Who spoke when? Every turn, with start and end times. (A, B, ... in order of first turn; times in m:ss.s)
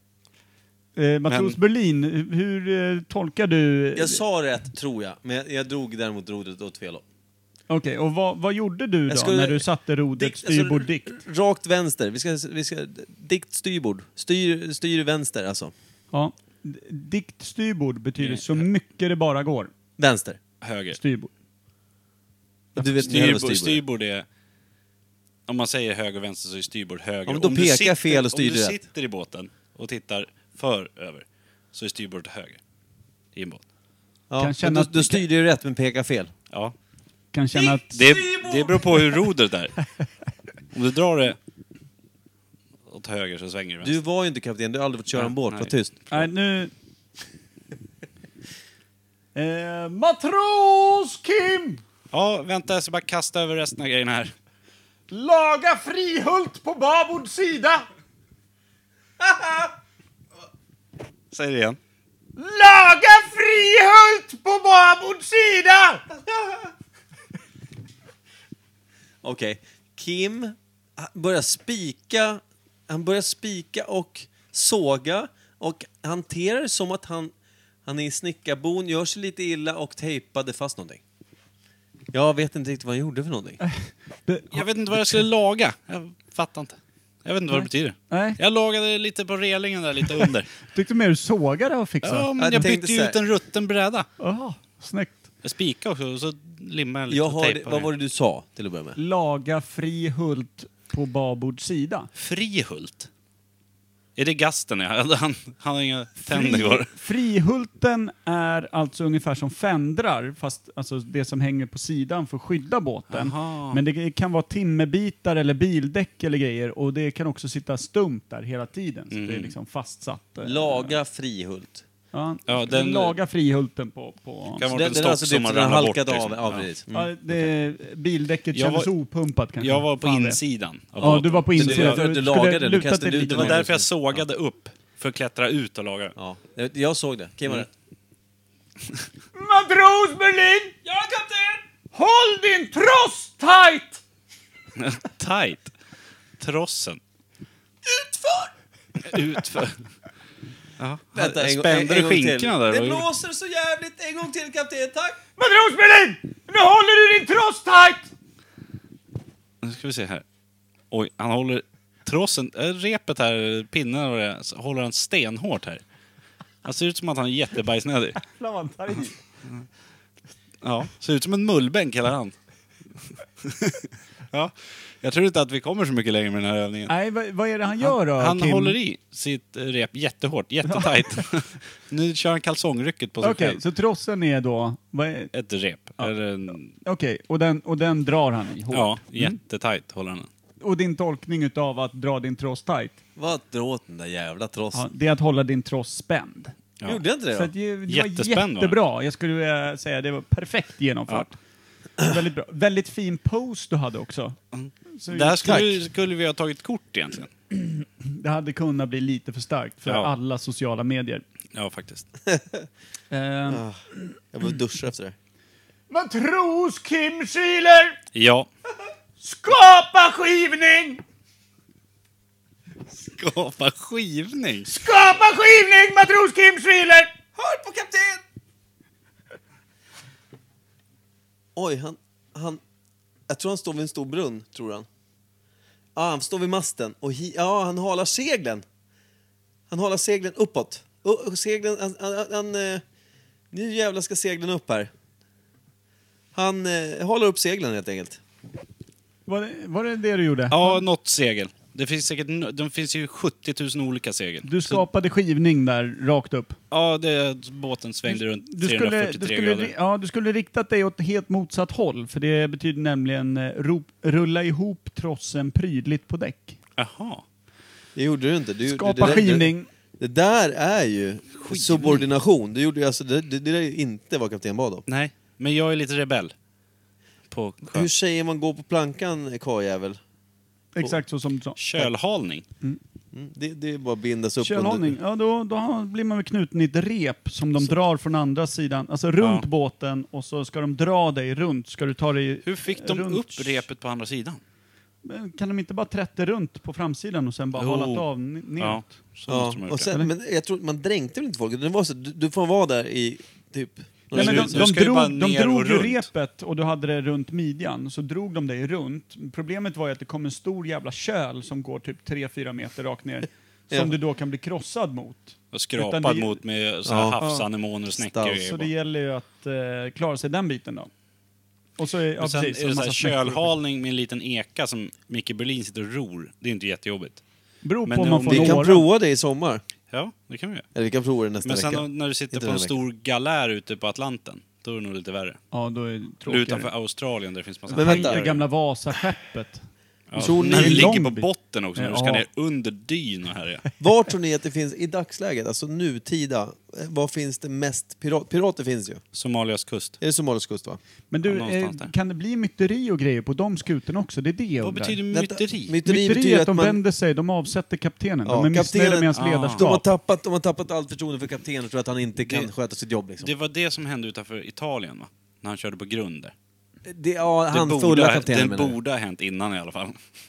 0:01.0-0:04.2 A
0:01.3-0:01.6 B
0:03.9-0:07.0 C
0:07.7-0:11.2 A
0:09.1-0:09.6 C
0:10.2-0:15.7 C
0:16.1-0:19.7 A
0:18.2-0:18.6 B
0:20.0-0:20.4 C
0:20.6-0:21.0 B
0:20.9-0:21.3 A
0:22.8-0:23.8 C
0:22.8-0:24.2 B
0:25.5-0:32.6 B
0:27.3-0:28.8 C
0:33.3-0:33.6 B
0:34.3-0:36.3 C
0:34.4-0:35.2 A
0:36.5-0:36.7 B
0:37.3-0:38.2 A
0:37.9-0:39.8 B
0:38.2-0:38.8 C
0:40.7-0:41.4 B
0:42.8-0:43.9 B
0:43.8-0:46.2 C
0:45.1-0:45.7 B
0:46.1-0:46.7 A
0:49.3-0:51.8 A
0:52.1-0:54.3 B
0:55.1-0:57.8 A
0:59.3-0:59.7 C
1:01.3-1:01.8 B
1:02.4-1:06.0 A
1:09.2-1:17.3 C
1:17.8-1:21.0 C
1:22.1-1:23.6 C
1:23.6-1:25.2 A
1:24.5-1:30.5 B
1:27.5-1:28.4 A
1:30.7-1:32.6 A
1:32.0-1:34.1 B
1:32.4-1:33.2 C
1:34.2-1:35.2 A
1:35.4-1:37.9 B
1:37.1-1:39.0 C
1:39.0-1:42.1 A
1:42.1-1:43.1 B
1:44.2-1:46.9 B
1:46.2-2:01.0 A
1:53.1-1:53.8 B
1:59.1-1:59.5 B
2:00.4-2:01.8 C
2:02.1-2:04.7 A
2:02.5-2:03.2 B
2:04.6-2:06.7 B
2:04.7-2:07.1 C
2:06.9-2:10.4 A
2:08.5-2:08.9 B
2:09.6-2:12.0 B
2:11.0-2:13.6 A
2:11.0-2:13.9 C
2:13.2-2:16.1 B
2:16.2-2:17.7 C
2:19.3-2:20.8 A
2:20.8-2:21.6 C
2:21.9-2:24.0 A
2:24.8-2:25.7 B
2:26.4-2:27.0 B
2:28.0-2:28.5 C
2:29.0-2:29.8 B
2:30.8-2:33.1 B
2:31.1-2:35.2 C
2:35.4-2:38.1 A
2:39.6-2:40.2 B
2:40.9-2:45.8 B
2:46.6-2:48.2 B
2:48.3-2:49.2 A
2:50.6-2:52.3 B
2:53.4-2:56.9 B
2:56.9-2:58.8 A
2:57.8-3:03.6 B
3:00.6-3:01.2 A
3:03.2-3:05.3 A
3:05.3-3:06.7 B
3:06.8-3:09.4 A
3:08.7-3:10.3 B
3:10.6-3:13.0 A
3:13.2-3:14.8 C
3:14.7-3:16.6 A
3:16.8-3:17.5 C
3:17.3-3:21.4 A
3:17.9-3:18.8 B
3:22.0-3:24.4 A
3:24.5-3:27.3 B
3:25.0-3:25.7 A
3:27.5-3:31.2 A
3:29.8-3:30.1 B
3:31.5-3:32.1 B
3:32.3-3:32.6 C
3:33.1-3:33.6 A
3:33.5-3:35.2 C
3:35.9-3:38.0 A
3:38.1-3:38.5 B
3:39.2-3:41.0 A
3:42.9-3:44.8 B
3:44.7-3:47.1 A
3:47.4-3:48.2 C
3:51.6-3:52.6 C
3:53.3-3:54.9 C
3:55.9-3:58.6 C
3:59.7-4:02.8 C
4:03.5-4:04.9 C
4:06.3-4:08.2 C
4:09.2-4:10.8 A
4:10.5-4:14.8 B
4:14.4-4:16.6 A
4:16.7-4:19.7 B
4:18.1-4:26.6 A
4:26.8-4:27.2 B
4:28.0-4:34.8 C
4:28.6-4:29.7 A
4:31.4-4:32.0 B
4:34.9-4:36.3 B
4:37.3-4:37.9 B
4:37.6-4:40.0 C
4:40.7-4:41.8 A
4:41.6-4:42.4 B
4:43.1-4:44.9 C
4:44.4-4:53.6 A
4:49.2-4:49.5 B
4:52.4-4:54.4 B
4:55.0-4:59.0 A
4:57.6-4:58.0 B
4:58.6-4:59.9 B
4:59.3-5:04.7 C
5:04.1-5:16.4 A
5:04.1-5:06.1 B
5:13.7-5:13.9 C
5:15.5-5:18.7 B
5:16.8-5:17.2 C
5:17.2-5:17.5 A
5:18.0-5:18.4 C
5:18.3-5:20.9 A
5:21.8-5:23.5 A
5:22.2-5:27.2 B
5:27.6-5:28.8 A
5:27.8-5:28.7 B
5:28.3-5:29.6 C
5:29.9-5:30.7 B
5:30.7-5:32.7 C
5:31.4-5:35.4 B
5:35.5-5:36.7 A
5:36.2-5:38.4 B
5:37.7-5:39.7 A
5:37.8-5:38.2 C
5:40.1-5:43.6 B
5:40.2-5:40.9 C
5:40.4-5:42.2 A
5:43.8-5:49.0 C
5:49.1-5:50.0 B
5:50.0-5:50.8 C
5:51.1-5:55.0 A
5:51.2-5:51.9 B
5:54.6-5:55.7 B
5:55.1-5:56.8 C
5:55.8-5:59.8 A
5:58.2-6:03.3 C
5:59.1-5:59.8 B
6:02.2-6:02.5 B
6:03.2-6:06.3 B
6:06.8-6:08.8 C
6:07.5-6:10.0 B